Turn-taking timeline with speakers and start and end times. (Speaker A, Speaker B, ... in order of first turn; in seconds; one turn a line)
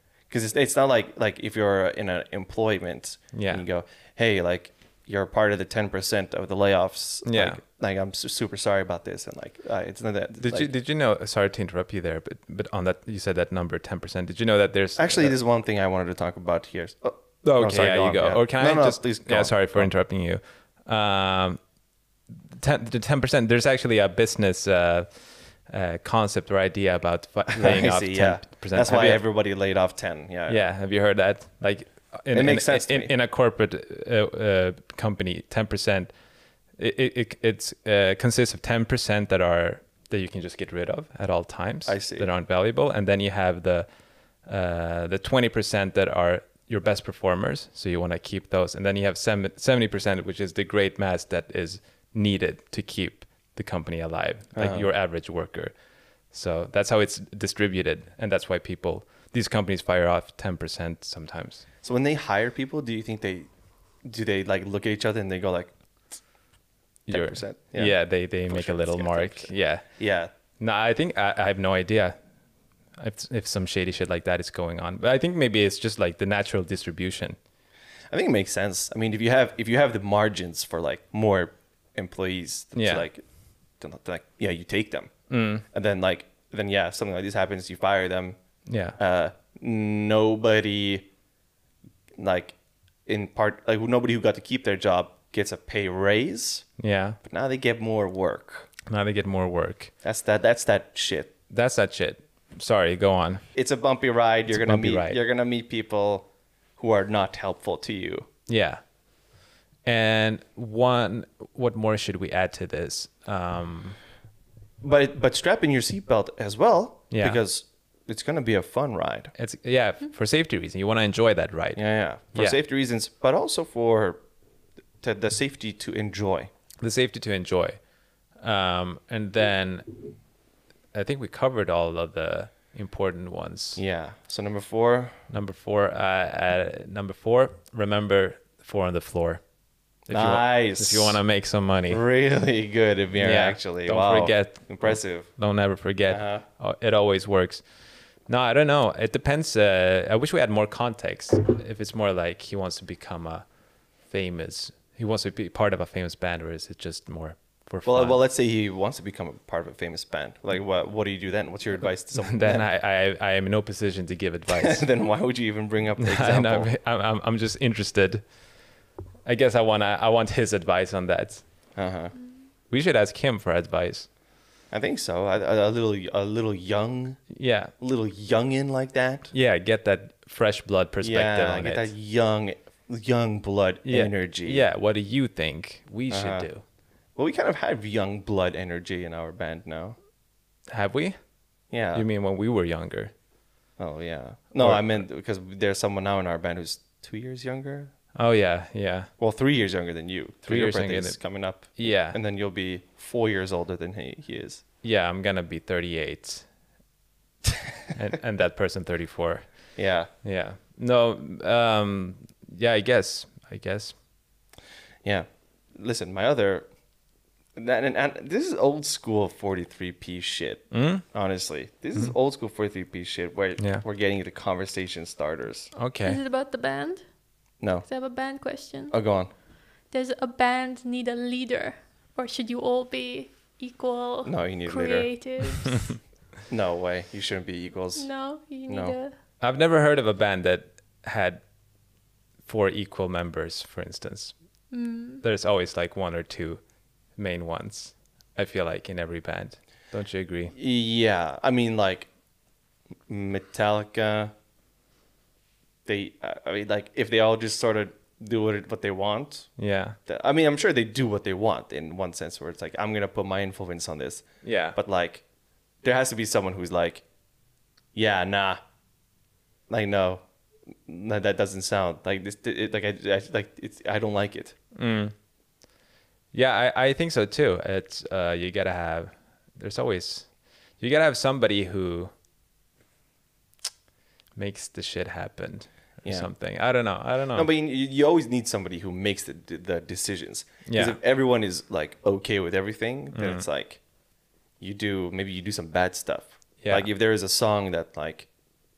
Speaker A: 0.3-10.7
Speaker B: 3.3-3.6
Speaker B: 7.2-7.6
Speaker B: 10.4-15.3
Speaker A: 15.0-19.9
Speaker B: 17.4-21.6
Speaker B: 22.3-29.2
Speaker A: 27.5-30.6
Speaker B: 30.5-36.1
Speaker A: 32.3-33.1
Speaker B: 36.8-43.9
Speaker A: 41.9-42.3
Speaker B: 44.5-55.7
Speaker A: 54.5-54.9
Speaker B: 56.3-61.6
Speaker A: 61.8-63.5
Speaker A: 64.0-65.7
Speaker B: 67.1-69.8
Speaker A: 67.1-68.0
Speaker A: 68.5-70.3
Speaker B: 70.6-72.2
Speaker B: 73.0-77.4
Speaker A: 78.1-83.2
Speaker B: 82.7-83.1
Speaker A: 83.8-85.1
Speaker B: 85.3-85.6
Speaker A: 85.7-88.4
Speaker B: 88.7-89.0
Speaker A: 89.0-91.1
Speaker A: 92.2-92.5
Speaker A: 93.0-96.7
Speaker B: 96.8-97.2
Speaker A: 97.2-98.7
Speaker B: 98.8-99.9
Speaker A: 100.0-101.3
Speaker B: 101.5-103.4
Speaker A: 103.5-108.3
Speaker B: 104.5-105.2
Speaker B: 108.5-108.8
Speaker B: 109.8-114.0
Speaker A: 114.8-119.3
Speaker B: 117.1-117.4
Speaker B: 119.3-121.8
Speaker A: 121.8-124.2
Speaker A: 125.0-126.5
Speaker B: 126.8-127.8
Speaker B: 128.4-130.0
Speaker B: 130.9-133.8
Speaker A: 133.8-135.2
Speaker B: 135.3-139.4
Speaker B: 140.1-142.0
Speaker A: 140.1-141.2
Speaker A: 141.9-145.3
Speaker B: 143.2-147.6
Speaker A: 146.1-146.4
Speaker B: 148.3-153.4
Speaker B: 154.1-158.2
Speaker A: 157.8-162.7
Speaker B: 162.2-164.8
Speaker A: 164.5-166.7
Speaker B: 166.0-168.2
Speaker B: 169.2-171.4
Speaker A: 171.8-172.1
Speaker B: 172.7-174.1
Speaker A: 174.7-177.2
Speaker B: 177.3-177.7
Speaker A: 177.8-179.3
Speaker B: 179.3-181.9
Speaker A: 181.0-184.7
Speaker B: 183.8-186.6
Speaker A: 186.1-186.5
Speaker A: 187.2-190.0
Speaker B: 190.7-191.2
Speaker A: 191.7-192.1
Speaker B: 191.9-193.1
Speaker A: 193.8-197.9
Speaker B: 194.6-195.0
Speaker B: 198.1-199.1
Speaker A: 199.2-204.6
Speaker B: 200.5-201.2
Speaker B: 201.7-202.2
Speaker B: 204.8-206.5
Speaker B: 207.9-209.4
Speaker A: 209.8-210.1
Speaker B: 210.2-213.9
Speaker A: 215.0-216.7
Speaker A: 217.6-225.7
Speaker B: 220.7-221.0
Speaker B: 223.6-223.8
Speaker B: 225.7-226.2
Speaker C: 226.0-227.0
Speaker A: 227.6-227.8
Speaker C: 227.9-228.9
Speaker A: 228.9-229.3
Speaker C: 229.9-235.9
Speaker A: 234.2-235.1
Speaker A: 236.5-238.1
Speaker C: 237.9-239.1
Speaker A: 238.7-238.9
Speaker B: 239.4-241.4
Speaker B: 242.4-244.3
Speaker C: 244.7-245.2
Speaker B: 245.2-246.6
Speaker B: 247.2-250.5
Speaker A: 250.5-252.1
Speaker A: 253.1-254.3
Speaker A: 255.8-259.5
Speaker B: 259.6-260.0
Speaker A: 260.1-265.2
Speaker B: 264.4-264.8
Speaker A: 265.8-267.0
Speaker A: 267.9-268.6
Speaker A: 269.7-270.2
Speaker A: 270.9-274.5
Speaker B: 274.7-275.1
Speaker B: 276.3-280.3
Speaker B: 280.8-282.1
Speaker B: 284.3-287.5
Speaker A: 287.3-293.8
Speaker B: 290.6-291.0
Speaker B: 293.1-293.4
Speaker A: 294.6-298.3
Speaker B: 296.6-296.9